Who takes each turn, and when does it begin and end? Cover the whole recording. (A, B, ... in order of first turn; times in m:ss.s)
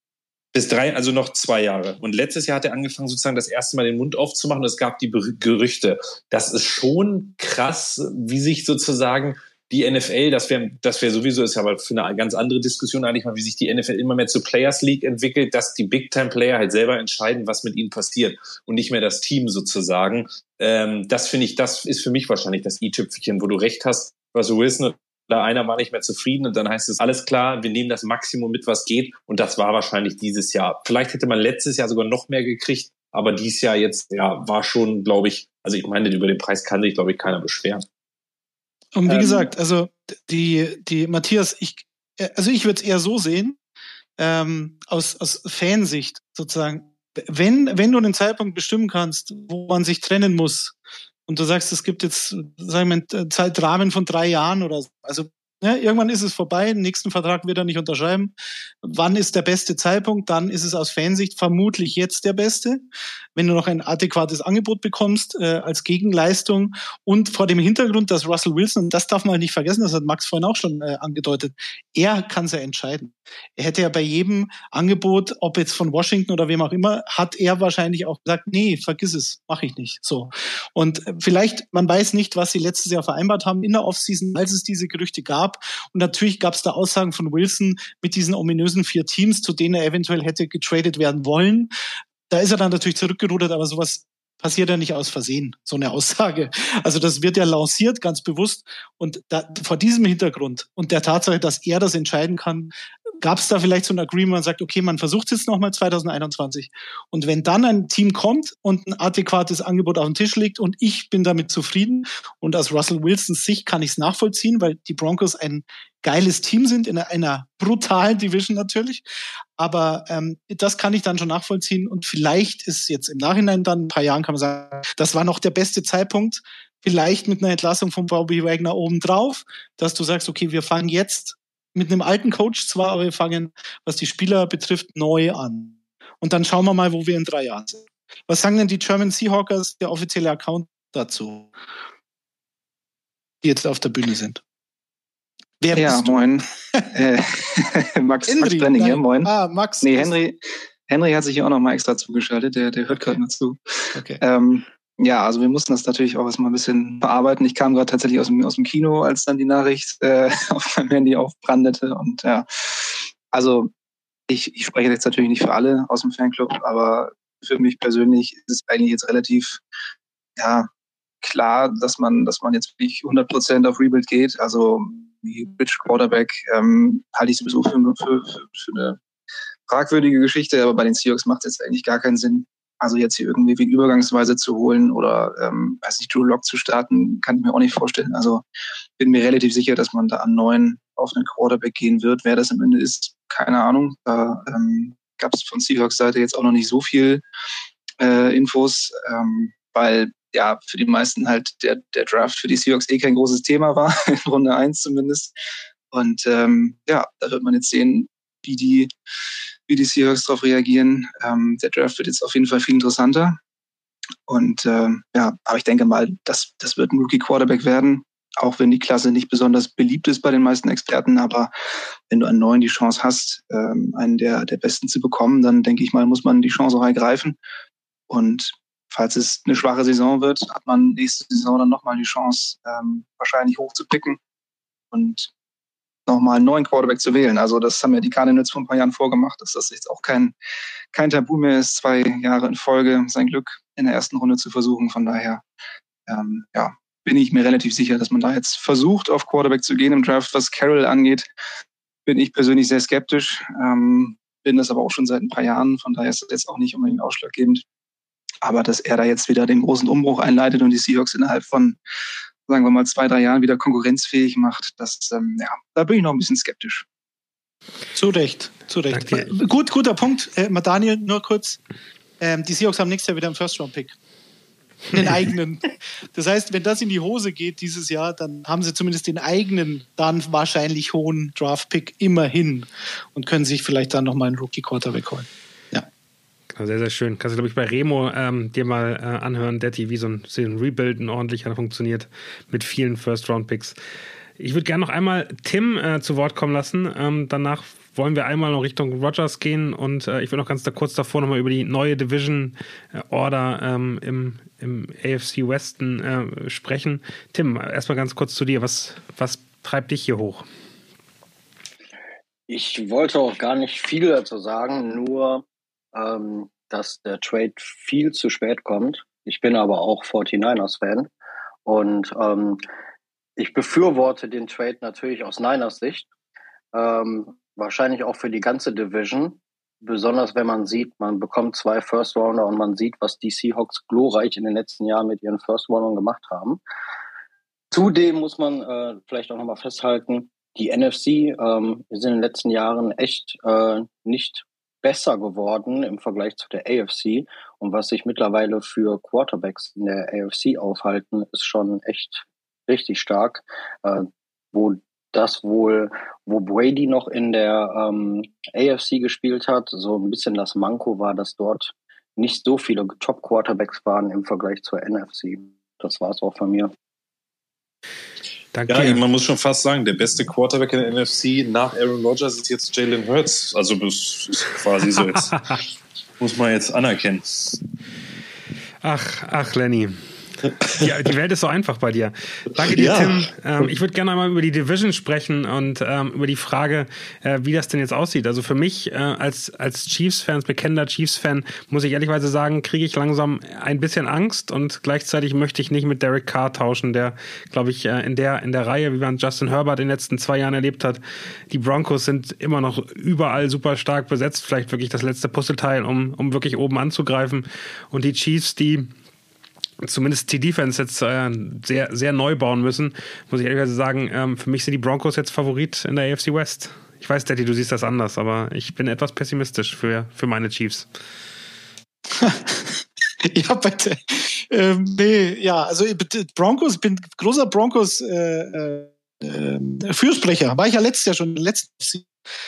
0:00.5-0:37.8 A
0:38.9-0:43.6 B
0:44.2-0:50.7 B
0:51.3-1:02.8 B
1:03.4-1:31.7 B
1:32.3-1:59.0 B
1:59.6-2:21.5 B
2:23.4-2:24.4 B
2:25.6-2:26.3 B
2:25.7-2:30.4 C
2:28.3-2:30.2 B
2:30.9-2:43.7 C
2:34.0-2:34.2 B
2:44.3-2:49.6 C
2:50.4-2:50.7 C
2:51.2-2:59.0 C
2:59.7-3:08.4 C
3:09.0-3:17.2 C
3:18.0-3:25.3 C
3:25.9-3:28.9 C
3:29.7-3:33.4 C
3:34.3-3:41.5 C
3:42.1-3:47.4 C
3:48.1-3:54.2 C
3:54.9-3:55.3 C
3:56.1-4:00.3 C
4:00.9-4:05.4 C
4:06.1-4:11.3 C
4:12.0-4:17.6 C
4:18.4-4:21.8 C
4:22.5-4:26.8 C
4:27.9-4:31.6 B
4:28.9-4:29.3 D
4:32.2-4:34.0 B
4:34.9-4:45.9 B
4:46.5-4:53.8 D
4:54.4-5:10.4 D
5:12.5-5:21.1 E
5:21.6-5:22.6 E
5:23.4-5:26.1 E
5:26.7-5:36.6 E
5:37.7-6:06.7 E
6:08.5-6:09.0 D
6:08.7-6:15.6 A
6:16.2-6:17.6 A
6:18.8-6:20.0 D
6:20.8-6:48.9 D
6:22.7-6:23.7 A
6:49.8-7:00.8 D
7:02.2-7:12.1 B